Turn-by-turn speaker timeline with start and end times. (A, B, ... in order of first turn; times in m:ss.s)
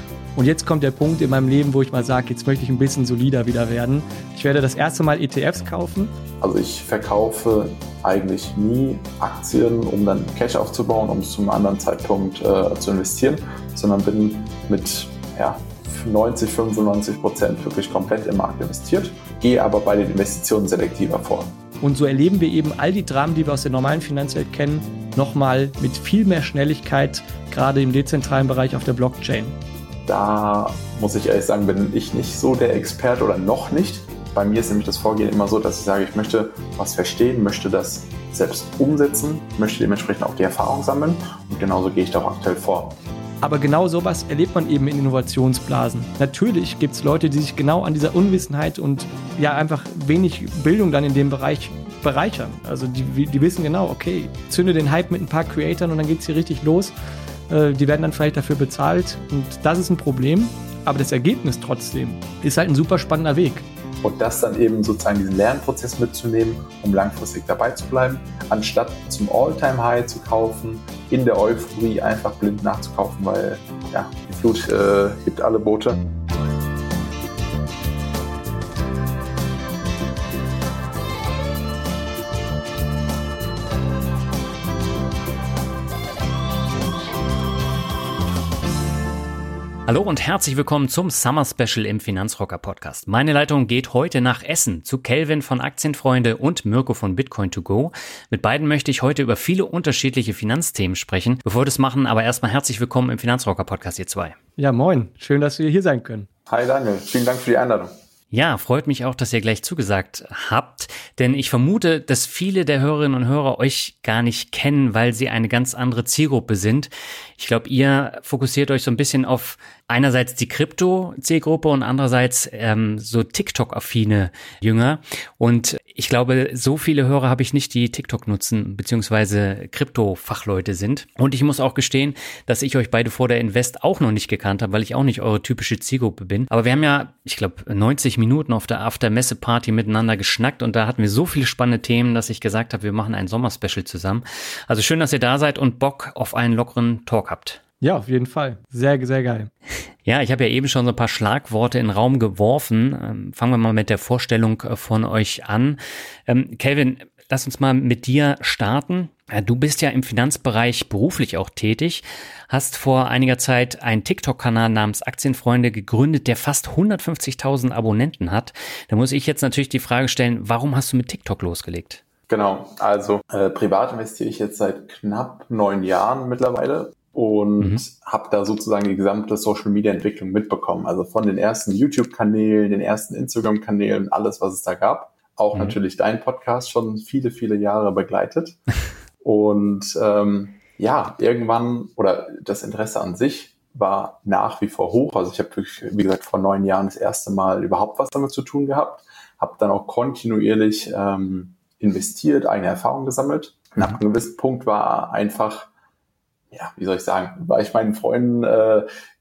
0:00.4-0:06.1 A
0:06.4-0:21.5 B
0:21.8-0:29.6 A
0:30.1-0:43.0 B
0:43.4-0:56.9 A
0:57.5-1:03.7 A
1:04.0-1:16.0 B
1:29.9-1:44.4 C
1:44.6-1:46.3 A
1:46.5-1:47.9 B
1:48.3-2:27.6 C
2:27.8-2:29.5 A
2:30.0-2:52.0 C
2:52.3-3:08.6 B
3:09.2-3:25.7 B
3:26.5-3:28.9 B